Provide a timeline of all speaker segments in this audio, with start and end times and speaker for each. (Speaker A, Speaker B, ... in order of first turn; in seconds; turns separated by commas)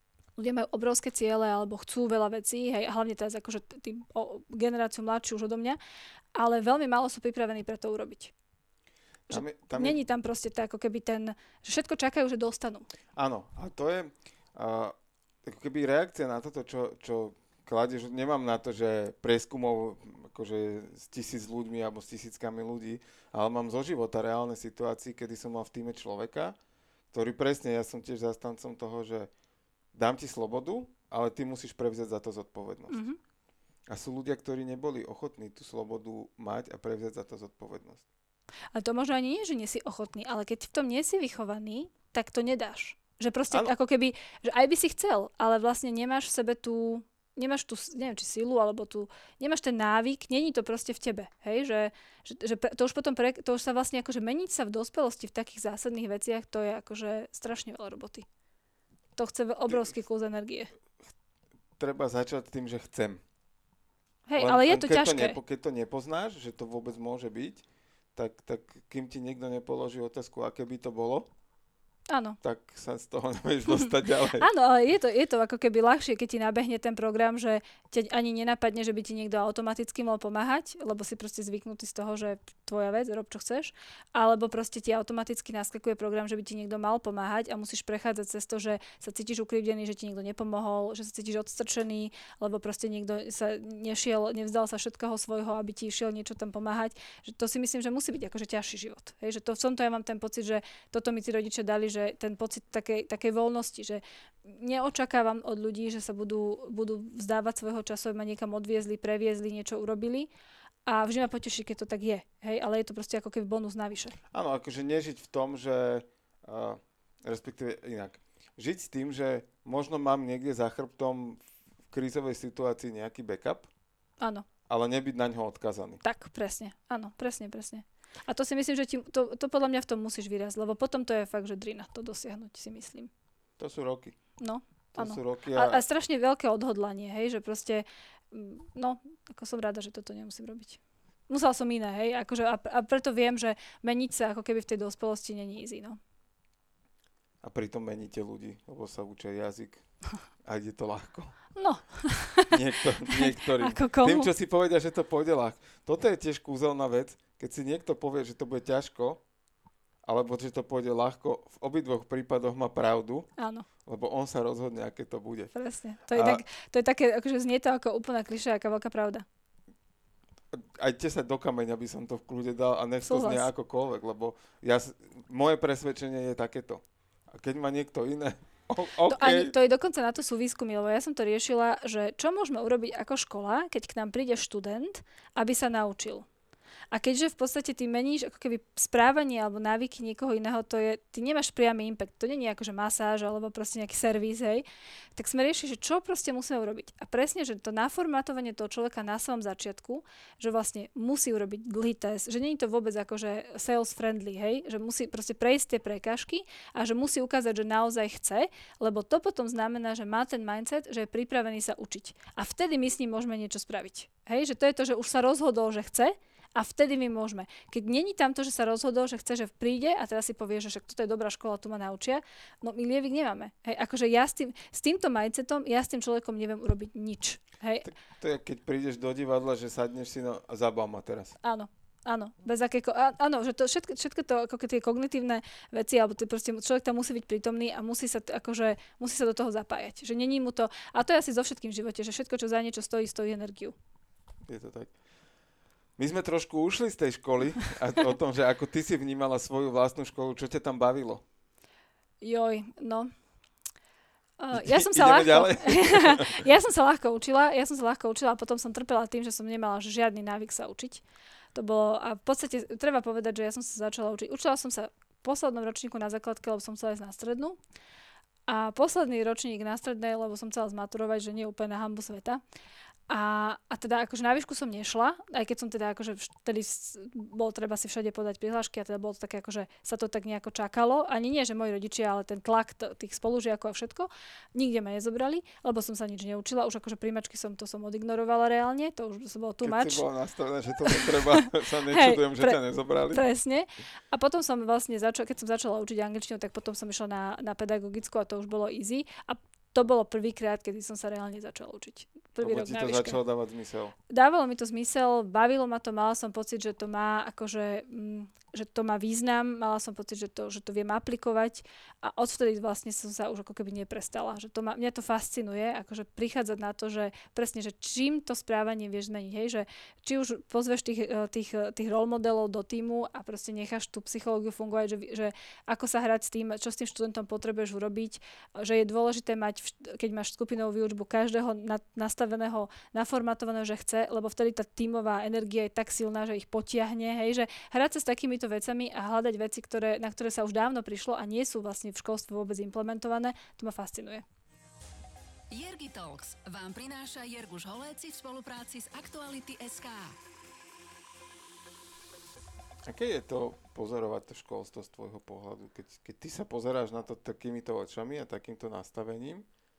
Speaker A: 0.4-5.8, Speaker A: 6.3-8.3, Speaker A: 9.3-12.9, Speaker B: 9.3-10.0, Speaker B: 13.2-26.6, Speaker B: 27.1-29.3, Speaker B: 29.9-33.0, Speaker A: 32.9-33.2, Speaker B: 33.9-38.0, Speaker A: 38.8-58.3, Speaker A: 59.2-60.7, Speaker B: 61.8-63.2, Speaker A: 64.3-65.4, Speaker B: 64.4-67.6, Speaker B: 68.2-71.3, Speaker A: 72.1-72.4, Speaker B: 72.4-74.5, Speaker A: 74.4-110.3, Speaker A: 110.9-114.2, Speaker B: 114.3-121.4, Speaker B: 121.9-123.7, Speaker A: 124.2-124.5, Speaker B: 124.7-126.0, Speaker A: 126.0-133.1, Speaker B: 133.6-134.2, Speaker A: 134.4-146.0, Speaker B: 134.9-135.8, Speaker B: 147.4-149.8, Speaker B: 150.4-151.3, Speaker A: 151.6-154.3, Speaker B: 152.5-159.2, Speaker B: 160.1-163.3, Speaker A: 163.4-163.7, Speaker B: 163.9-165.5, Speaker A: 165.5-169.2, Speaker B: 166.1-166.4, Speaker B: 170.5-179.5, Speaker A: 173.0-173.5, Speaker A: 179.1-186.3, Speaker A: 186.9-194.7, Speaker A: 195.2-227.9, Speaker B: 227.9-231.4, Speaker A: 231.4-243.8, Speaker B: 244.5-244.9, Speaker B: 246.0-251.2, Speaker A: 252.2-253.1, Speaker A: 254.4-261.0, Speaker B: 254.5-256.4, Speaker A: 261.5-267.6, Speaker A: 268.5-272.4, Speaker A: 273.1-290.1, Speaker B: 289.6-293.2, Speaker A: 290.8-303.2, Speaker B: 302.4-303.9, Speaker A: 304.1-344.2, Speaker C: 345.5-350.2, Speaker B: 352.9-359.5